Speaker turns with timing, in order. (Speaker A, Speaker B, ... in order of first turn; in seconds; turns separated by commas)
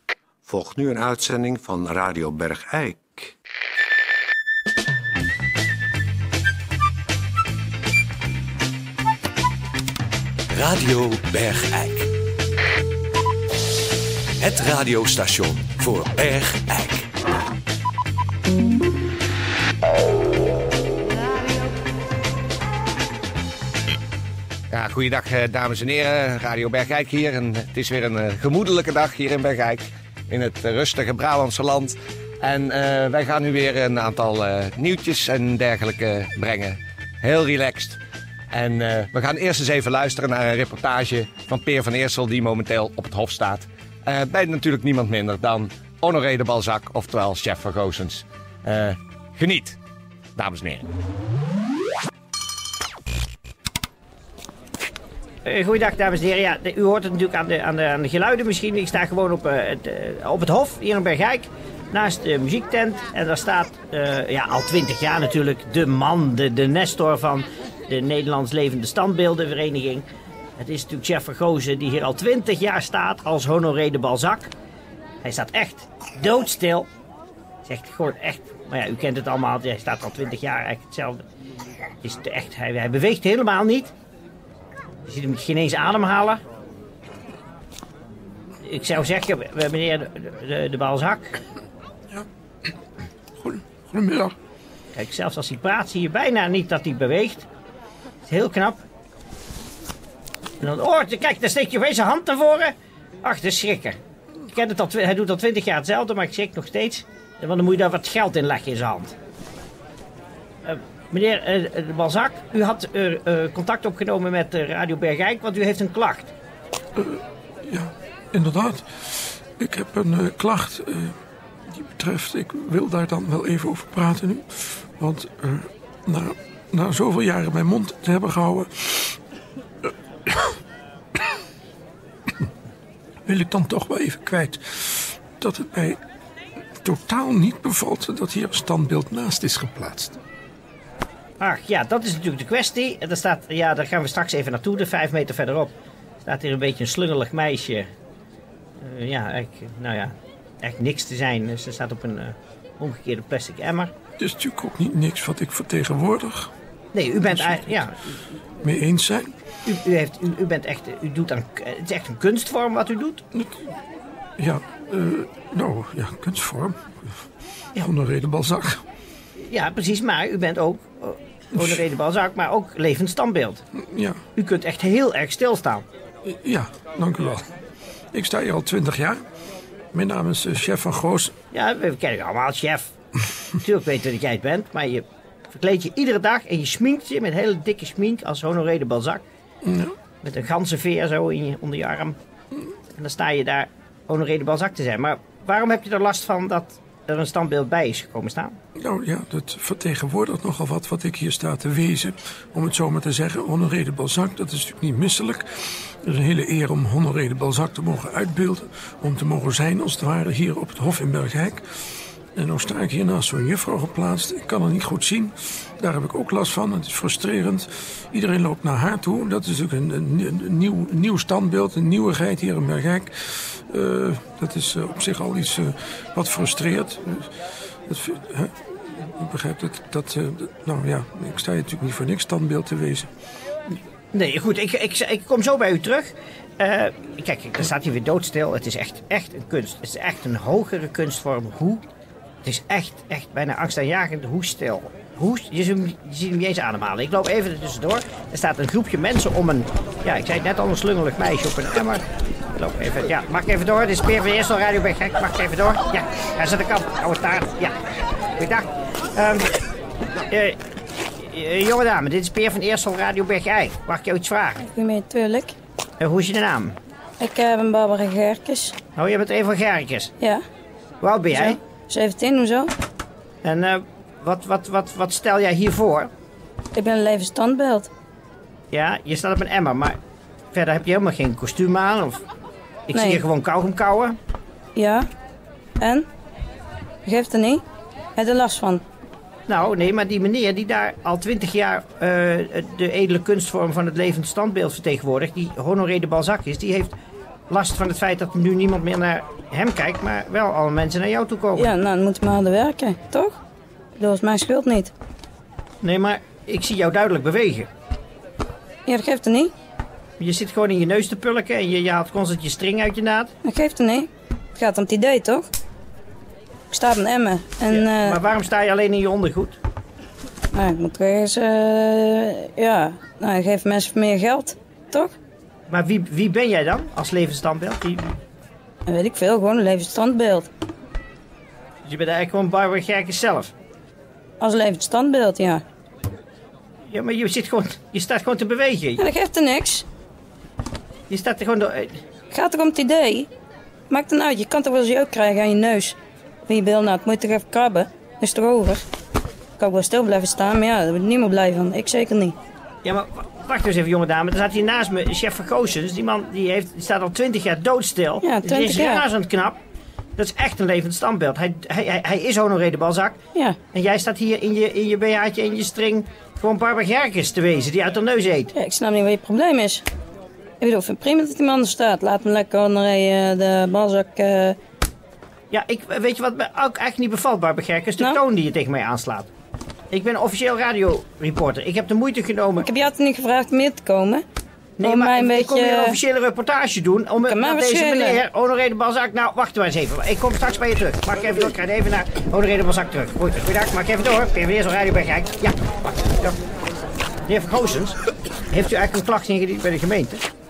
Speaker A: 0.5-3.3, Speaker B: 10.5-12.0, Speaker A: 10.9-11.9, Speaker B: 14.7-17.0, Speaker C: 24.7-38.0, Speaker C: 38.5-49.8, Speaker C: 50.4-50.9, Speaker D: 55.5-70.1, Speaker D: 70.6-74.5, Speaker D: 75.2-76.9, Speaker D: 77.7-81.2, Speaker D: 82.0-83.9, Speaker D: 85.1-86.4, Speaker D: 88.6-91.4, Speaker E: 93.4-94.3, Speaker D: 95.0-97.5, Speaker D: 98.2-98.8, Speaker D: 100.6-104.0, Speaker D: 104.5-109.1, Speaker D: 110.6-116.3, Speaker E: 117.0-121.1, Speaker E: 121.7-129.2, Speaker E: 129.8-130.6, Speaker E: 133.2-136.0, Speaker E: 136.8-140.2, Speaker D: 141.4-145.7, Speaker D: 146.2-147.9, Speaker D: 148.8-153.9, Speaker E: 154.2-156.5, Speaker D: 156.9-158.2, Speaker E: 157.3-157.6, Speaker E: 158.6-159.3, Speaker D: 159.7-163.2, Speaker E: 163.3-163.7, Speaker E: 164.4-167.1, Speaker E: 167.8-168.8, Speaker D: 169.3-173.6, Speaker E: 171.5-171.8, Speaker E: 173.8-174.2, Speaker D: 174.3-175.8, Speaker E: 176.2-177.5, Speaker E: 178.1-179.2, Speaker E: 179.9-181.3, Speaker D: 181.5-182.9, Speaker D: 183.6-189.2, Speaker E: 189.6-189.9, Speaker D: 190.2-192.2, Speaker D: 193.0-198.6, Speaker E: 198.8-211.6, Speaker E: 212.3-233.1, Speaker D: 234.1-241.8, Speaker D: 242.4-252.0, Speaker D: 252.6-257.8, Speaker D: 258.4-259.5, Speaker D: 260.3-260.6, Speaker D: 261.2-264.6, Speaker F: 264.6-265.6, Speaker D: 266.0-266.8, Speaker F: 267.2-268.8, Speaker D: 268.9-270.1, Speaker D: 271.0-271.6, Speaker F: 271.3-272.7, Speaker D: 273.4-276.1, Speaker F: 276.7-277.9, Speaker D: 278.7-280.0, Speaker D: 280.5-282.2, Speaker D: 282.9-284.2, Speaker F: 282.9-283.2, Speaker F: 284.8-285.1, Speaker F: 285.8-286.1, Speaker F: 287.1-287.6, Speaker F: 288.2-288.8, Speaker D: 289.5-296.9, Speaker D: 297.5-301.7, Speaker F: 301.6-303.4, Speaker F: 303.9-304.9, Speaker D: 305.8-307.7, Speaker F: 308.9-309.5, Speaker D: 310.2-313.3, Speaker F: 313.4-315.5, Speaker F: 316.7-318.2, Speaker D: 317.7-319.6, Speaker F: 320.5-325.1, Speaker D: 325.7-328.1, Speaker F: 328.9-330.5, Speaker D: 331.9-333.5, Speaker F: 334.4-335.6, Speaker D: 336.9-339.0, Speaker F: 339.0-339.9, Speaker D: 341.1-342.0, Speaker F: 342.3-343.3, Speaker F: 343.9-348.8, Speaker F: 349.6-352.4, Speaker D: 352.8-359.6, Speaker F: 358.2-359.0, Speaker D: 360.2-363.2, Speaker D: 363.7-368.5, Speaker F: 368.6-369.8, Speaker F: 370.6-374.6, Speaker D: 375.5-379.3, Speaker D: 379.9-382.7, Speaker F: 382.6-384.2, Speaker D: 384.8-396.4, Speaker F: 384.9-385.9, Speaker F: 387.3-388.2, Speaker D: 397.3-398.0, Speaker D: 398.5-400.2